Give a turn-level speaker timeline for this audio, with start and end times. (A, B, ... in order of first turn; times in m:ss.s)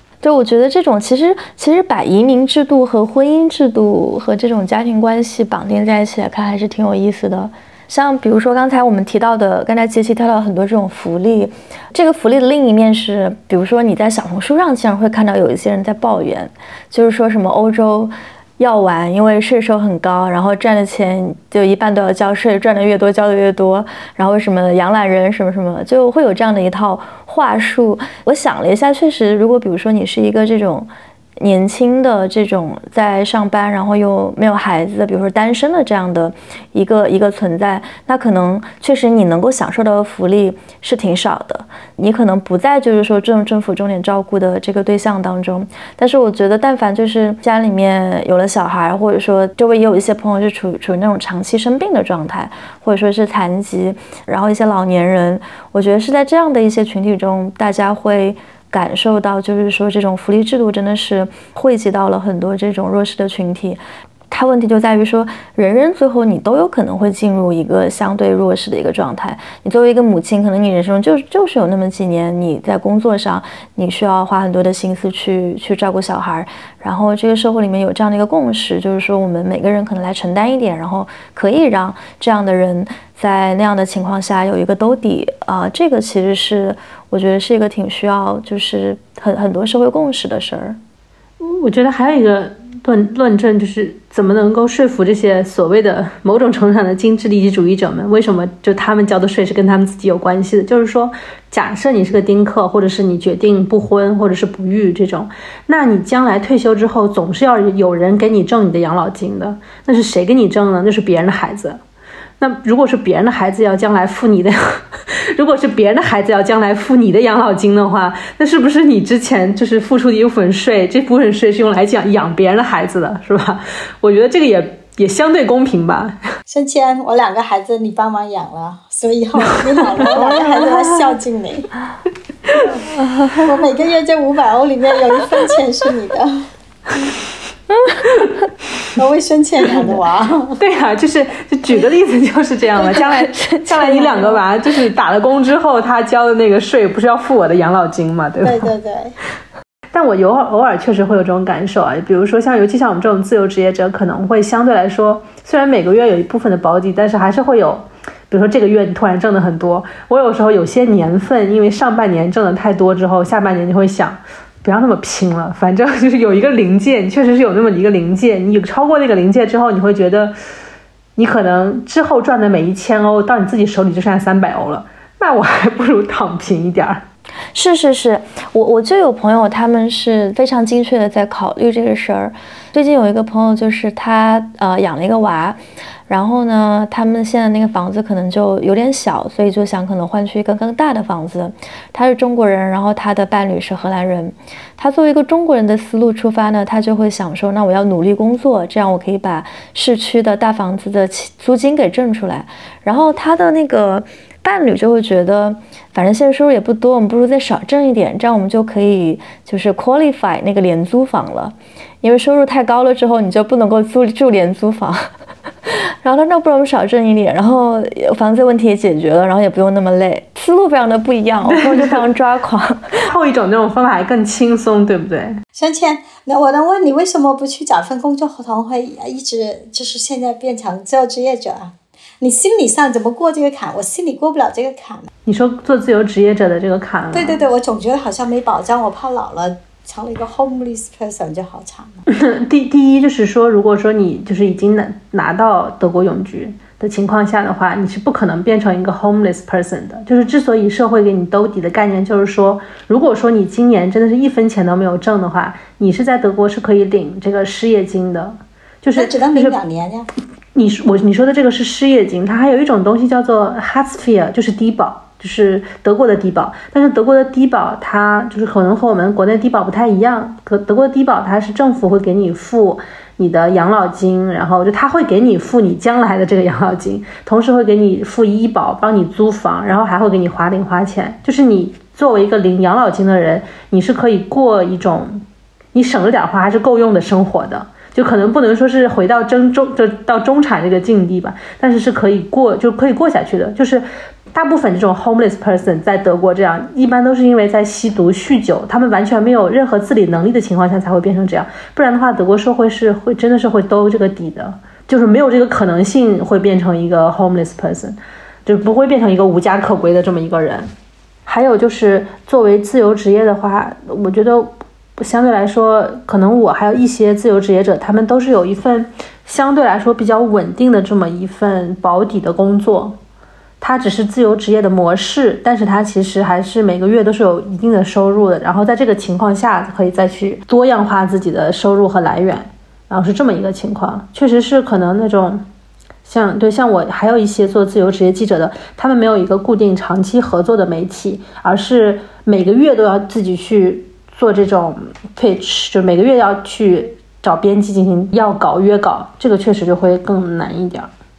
0:00.2-1:30.8 A
1:31.4-1:51.8 B
1:52.4-2:06.3 B
2:06.5-2:11.7 C
2:09.9-2:10.7 B
2:10.2-2:10.5 A
2:13.4-2:16.5 C
2:19.0-2:20.6 C
2:20.6-2:28.7 B
2:22.8-2:24.4 A
2:28.4-2:29.2 C
2:29.9-2:50.4 B
2:51.2-2:57.1 B
2:57.6-3:35.1 A
3:35.7-3:42.8 A
3:41.6-3:42.0 B
3:43.0-3:45.4 B
3:45.6-3:55.1 C
3:55.3-3:57.4 B
3:57.1-4:02.0 C
4:02.1-4:19.6 B
4:19.0-4:20.1 C
4:20.6-5:10.7 B
5:11.3-5:23.0 B
5:23.6-5:35.5 B
5:36.0-5:50.9 B